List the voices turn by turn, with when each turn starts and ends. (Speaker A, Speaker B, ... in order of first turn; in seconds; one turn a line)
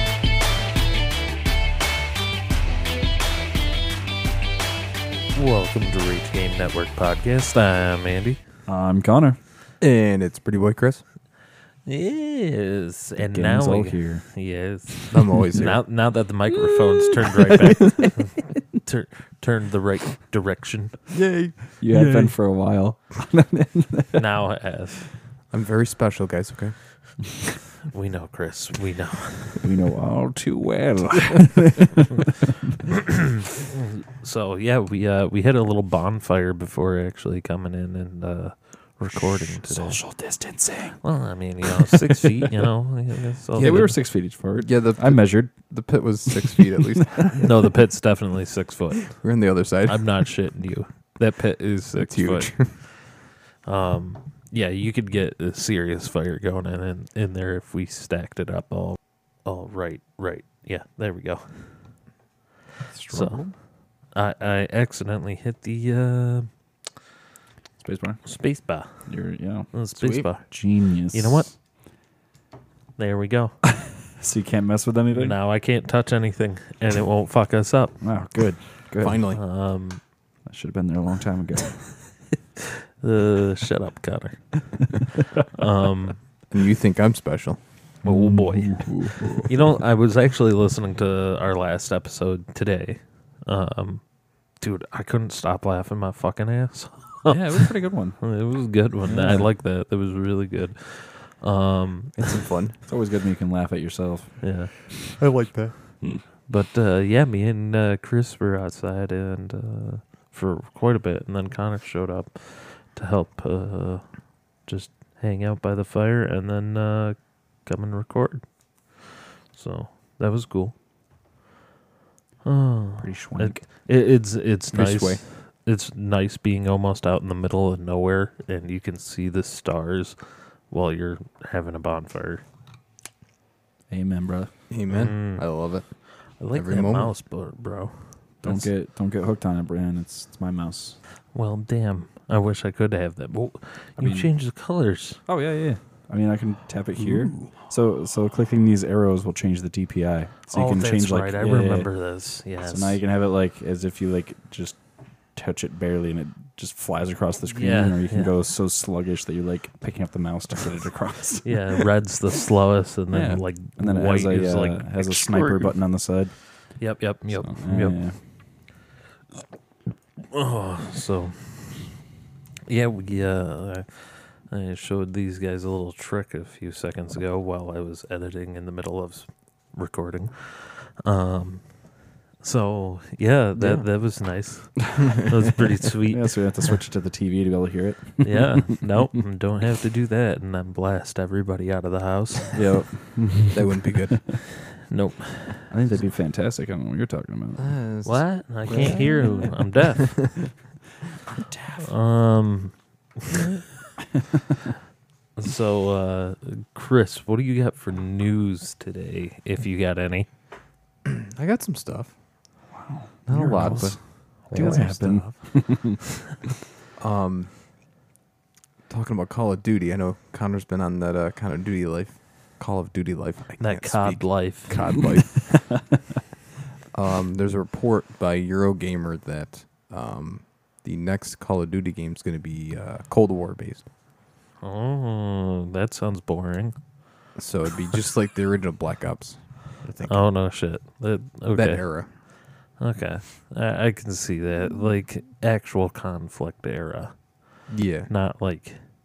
Speaker A: 5.3-8.4
Speaker B: 8.7-9.4
Speaker C: 9.8-11.0
Speaker A: 11.8-21.0
Speaker B: 13.2-14.2
Speaker C: 15.1-15.8
Speaker C: 21.1-22.3
Speaker B: 21.8-24.2
Speaker A: 24.1-25.0
Speaker C: 25.5-26.7
Speaker A: 27.9-29.6
Speaker B: 29.6-32.8
Speaker A: 33.7-40.0
Speaker B: 39.1-42.6
Speaker A: 41.0-43.9
Speaker B: 43.5-45.7
Speaker C: 43.5-47.4
Speaker B: 46.3-47.3
Speaker A: 47.4-49.2
Speaker C: 49.1-50.3
Speaker A: 49.8-53.0
Speaker C: 52.0-52.8
Speaker A: 53.6-61.5
Speaker B: 62.9-63.5
Speaker A: 63.1-63.4
Speaker A: 64.1-66.5
Speaker B: 67.8-68.2
Speaker A: 68.2-68.9
Speaker B: 69.0-69.7
Speaker A: 69.7-71.5
Speaker B: 70.3-71.5
Speaker A: 73.0-73.5
Speaker B: 73.8-75.3
Speaker A: 75.1-78.0
Speaker B: 78.0-79.2
Speaker C: 79.0-79.4
Speaker A: 79.3-80.0
Speaker B: 80.5-81.9
Speaker A: 83.0-86.2
Speaker C: 86.5-87.6
Speaker B: 88.0-89.5
Speaker A: 88.0-102.3
Speaker B: 97.2-98.2
Speaker B: 99.0-99.5
Speaker C: 102.2-102.8
Speaker B: 102.9-104.4
Speaker A: 104.4-104.7
Speaker C: 105.2-106.1
Speaker A: 106.5-120.7
Speaker A: 122.4-130.2
Speaker B: 123.0-123.6
Speaker C: 124.7-125.2
Speaker A: 130.7-132.4
Speaker B: 133.9-134.5
Speaker C: 134.7-135.9
Speaker A: 134.9-135.4
Speaker A: 136.3-138.7
Speaker C: 136.5-137.1
Speaker B: 138.4-141.0
Speaker A: 141.3-145.2
Speaker B: 144.0-144.3
Speaker B: 145.3-151.9
Speaker C: 147.0-147.5
Speaker A: 150.5-153.0
Speaker B: 152.6-154.8
Speaker B: 155.3-161.9
Speaker A: 157.4-158.3
Speaker A: 161.4-165.6
Speaker B: 163.1-166.3
Speaker A: 166.8-168.0
Speaker B: 167.3-168.2
Speaker A: 170.3-171.8
Speaker A: 172.7-181.8
Speaker A: 182.4-186.3
Speaker C: 183.5-183.9
Speaker B: 186.1-188.8
Speaker A: 188.2-192.7
Speaker B: 192.5-193.7
Speaker C: 193.5-194.3
Speaker A: 194.4-195.7
Speaker B: 195.7-197.7
Speaker C: 197.6-200.5
Speaker A: 198.0-200.3
Speaker B: 198.7-199.4
Speaker B: 201.4-201.9
Speaker A: 201.8-203.6
Speaker A: 205.3-210.3
Speaker C: 211.0-212.1
Speaker B: 212.7-216.0
Speaker C: 213.3-215.3
Speaker A: 214.5-215.3
Speaker C: 217.0-217.5
Speaker C: 218.9-225.8
Speaker A: 223.6-224.9
Speaker C: 226.9-233.8
Speaker A: 234.6-236.8
Speaker C: 237.3-240.2
Speaker A: 240.1-248.8
Speaker C: 241.5-242.1
Speaker C: 247.7-248.1